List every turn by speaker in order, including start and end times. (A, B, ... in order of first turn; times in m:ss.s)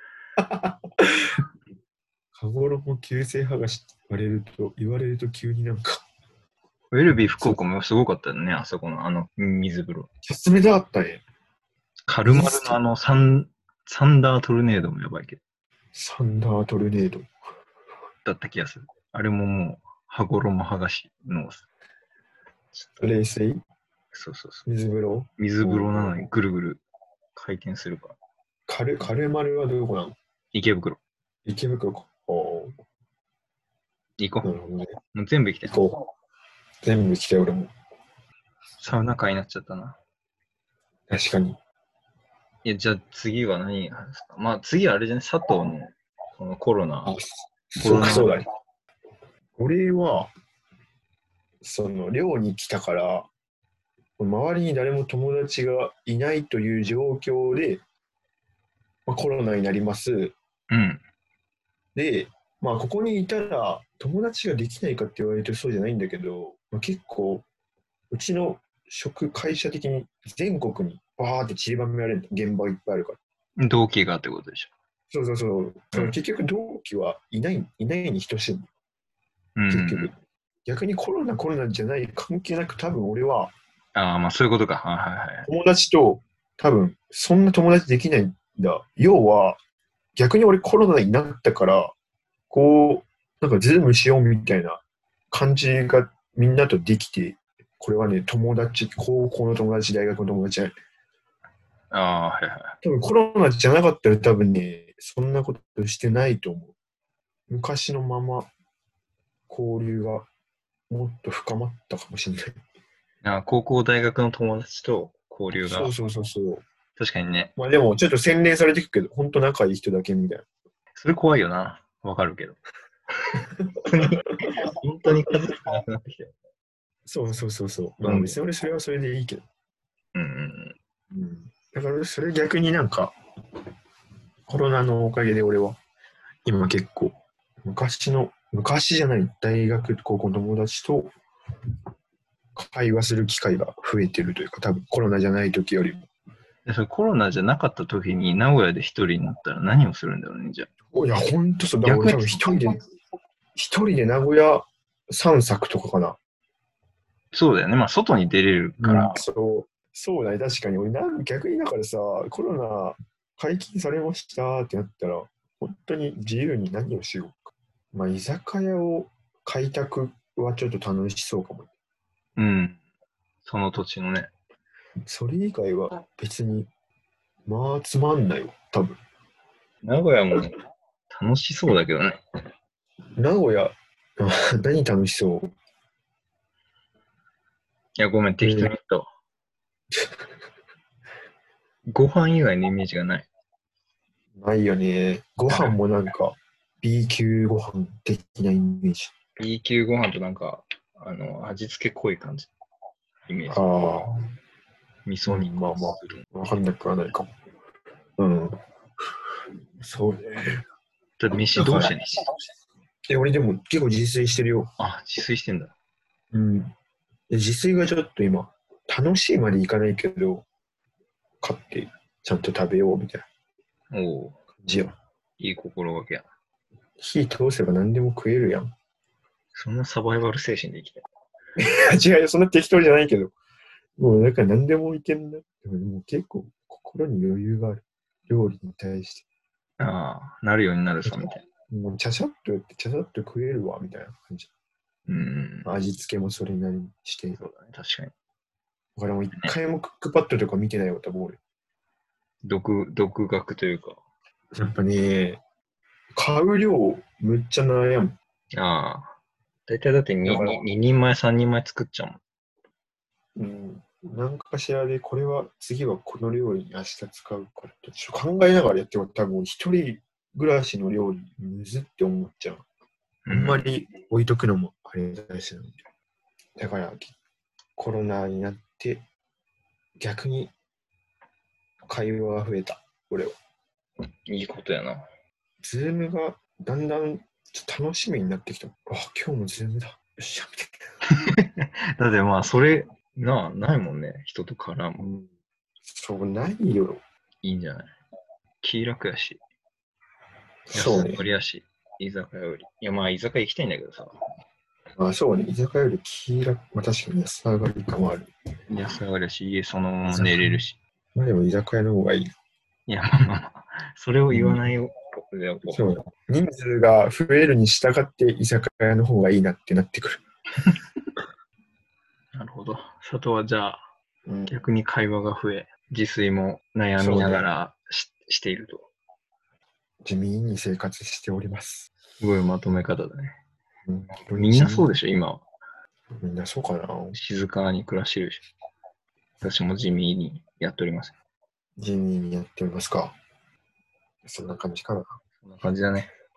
0:00.4-0:01.4 A
0:02.3-0:06.0 A
0:06.9-0:10.1 B
0:10.2-0:11.2 A
0:12.1-0:15.4 B
0:12.2-0:12.8 A
0:15.9-0:17.3 A
0:18.2-0:21.6 B
0:23.0-0:23.6 A
0:24.1-0:24.6 B
0:24.6-0:26.1 A
0:25.4-0:26.8 B
0:27.3-0:28.2 B
0:28.7-0:30.2 A
0:30.5-0:31.0 B
0:31.4-0:32.7 A
0:34.2-0:34.6 B
0:34.4-0:34.9 A
0:35.1-0:35.8 B
0:35.6-0:36.0 A
0:36.8-0:37.7 A
0:38.8-0:40.0 B
0:41.1-0:41.6 A
0:42.6-0:47.1 B
0:47.0-0:48.4 A
0:47.8-0:48.4 B
0:49.6-0:50.3 A
0:51.6-0:53.3 A
0:54.2-0:57.8 A
0:59.1-1:00.3 A
1:00.7-1:01.0 B
1:01.9-1:07.5 A
1:08.1-1:13.2 A
1:13.6-1:14.7 B
1:15.1-1:18.7 A
1:19.6-1:20.1 B
1:19.7-1:20.1 A
1:20.6-1:23.5 A
1:23.9-1:25.5 B
1:25.4-1:29.6 A
1:30.2-1:31.9 A
1:32.5-1:40.7 A
1:41.9-1:42.7 B
1:42.8-1:46.7 A
1:47.5-1:48.5 A
1:49.5-1:50.2 A
1:50.9-1:52.6 A
1:53.2-1:55.9 B
1:55.5-1:56.6 A
1:57.0-1:57.5 B
1:57.6-2:00.4 A
2:01.0-2:02.6 B
2:03.4-2:03.9 A
2:03.9-2:06.3 B
2:07.0-2:09.4 A
2:08.0-2:08.4 B
2:10.1-2:10.7 B
2:11.1-2:13.2 A
2:14.5-2:15.8 A
2:16.4-2:21.1 A
2:22.6-2:26.1 A
2:26.6-2:30.7 B
2:30.9-2:32.8 A
2:31.8-2:32.9 B
2:33.5-2:36.2 A
2:37.3-2:39.2 B
2:38.8-2:51.7 A
2:52.4-2:52.8 B
2:53.4-2:54.3 B
2:55.0-2:56.7 A
2:57.5-2:59.0 A
2:59.8-3:00.5 B
3:01.1-3:02.2 B
3:03.2-3:05.5 A
3:08.0-3:09.0 B
3:08.4-3:08.7 A
3:11.9-3:13.3 B
3:14.4-3:19.1 A
3:15.5-3:15.7 B
3:19.4-3:22.5 B
3:23.3-3:23.7 B
3:23.5-3:24.1 A
3:25.0-3:26.2 B
3:25.3-3:27.3 A
3:28.2-3:28.6 A
3:29.8-3:30.6 A
3:31.2-3:32.2 B
3:31.5-3:31.9 A
3:33.0-3:34.7 A
3:34.8-3:35.7 B
3:36.3-3:36.7 A
3:37.3-3:40.4 A
3:41.4-3:43.3 A
3:43.9-3:44.4 B
3:44.6-3:45.0 A
3:45.4-3:46.2 B
3:47.0-3:48.7 A
3:49.5-3:51.0 B
3:51.6-3:53.3 A
3:54.0-3:59.2 A
3:59.8-4:01.4 B
4:01.0-4:04.5 A
4:05.1-4:05.7 B
4:05.6-4:07.4 A
4:07.4-4:08.1 B
4:09.0-4:11.4 A
4:12.4-4:14.0 B
4:14.6-4:15.4 A
4:16.1-4:18.2 A
4:18.5-4:19.1 B
4:19.7-4:22.2 B
4:20.2-4:20.6 A
4:23.4-4:32.6 A
4:33.2-4:33.7 B
4:33.3-4:35.7 A
4:36.6-4:37.1 A
4:37.8-4:39.0 A
4:40.0-4:40.5 A
4:41.9-4:43.3 A
4:44.3-4:45.0 B
4:45.6-4:50.8 A
4:51.3-4:55.1 B
4:55.0-4:55.3 A
4:55.8-4:57.0 A
4:57.4-4:57.9 B
4:58.6-4:59.4 B
5:00.7-5:01.2 A
5:00.7-5:04.1 B
5:05.0-5:08.3 A
5:08.7-5:10.8 B
5:10.1-5:10.6 A
5:11.1-5:12.3 A
5:12.9-5:15.9 B
5:14.3-5:14.7 A
5:15.7-5:20.2 A
5:22.3-5:23.8 B
5:24.2-5:24.6 A
5:24.5-5:28.9 B
5:27.0-5:27.4 A
5:30.0-5:31.9 A
5:32.2-5:33.3 B
5:33.9-5:34.9 A
5:34.2-5:35.4 B
5:36.1-5:37.2 A
5:37.1-5:38.4 B
5:39.4-5:41.1 B
5:41.8-5:43.1 A
5:44.2-5:45.2 A
5:45.4-5:46.1 B